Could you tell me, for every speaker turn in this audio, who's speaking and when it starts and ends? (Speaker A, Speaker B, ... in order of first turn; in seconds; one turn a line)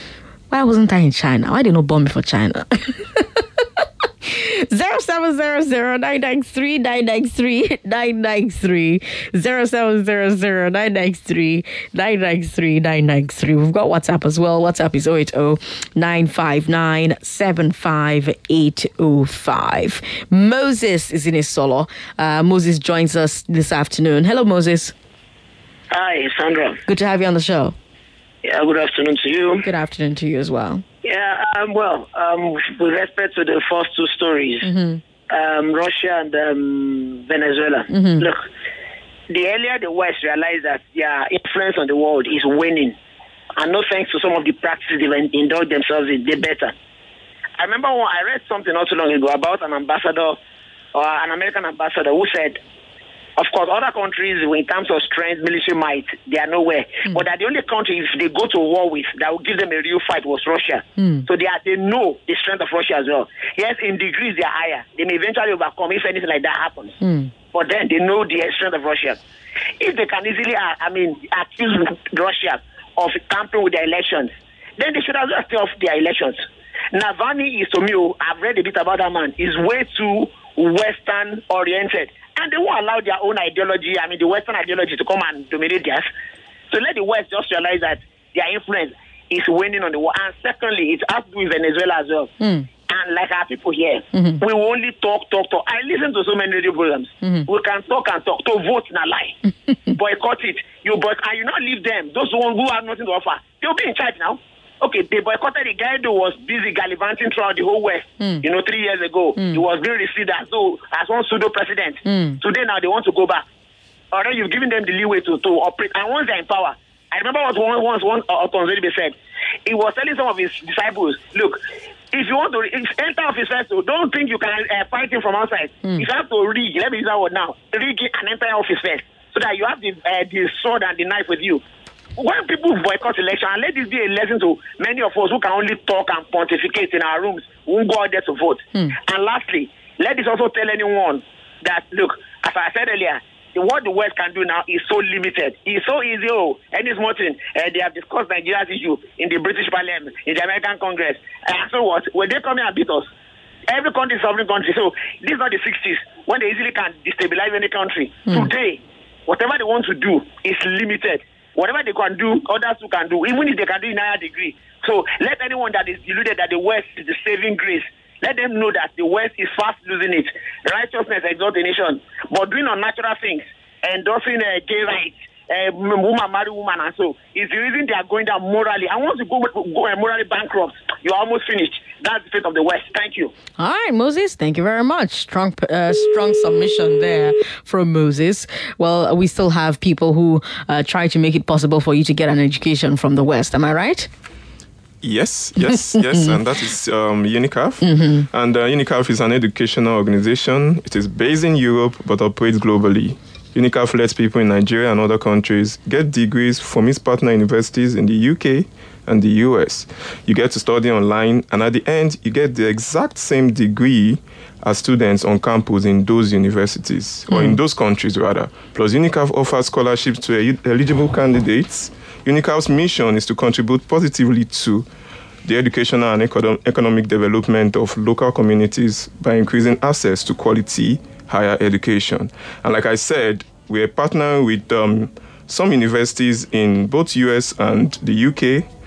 Speaker A: 0.5-3.4
Speaker A: 4.2-24.9
Speaker B: 25.9-26.8
Speaker A: 26.9-27.8
Speaker B: 28.4-29.7
Speaker A: 29.6-30.8
Speaker B: 31.0-34.7
Speaker A: 34.6-35.0
Speaker B: 35.3-38.5
Speaker A: 37.9-38.3
Speaker B: 39.3-43.0
Speaker B: 43.6-46.7
Speaker B: 47.6-50.4
Speaker B: 50.9-52.6
Speaker B: 53.4-67.0
Speaker A: 61.0-61.2
Speaker A: 67.0-67.3
Speaker B: 67.5-69.2
Speaker B: 69.8-86.1
Speaker B: 86.7-92.3
Speaker A: 92.4-92.7
Speaker B: 92.8-99.4
Speaker B: 99.9-113.4
Speaker A: 112.1-112.4
Speaker B: 114.1-119.2
Speaker B: 119.7-121.6
Speaker B: 122.1-131.6
Speaker B: 132.2-153.1
Speaker B: 153.7-183.3
Speaker A: 183.6-194.1
Speaker C: 195.0-224.9
Speaker A: 197.8-198.3
Speaker C: 225.4-238.7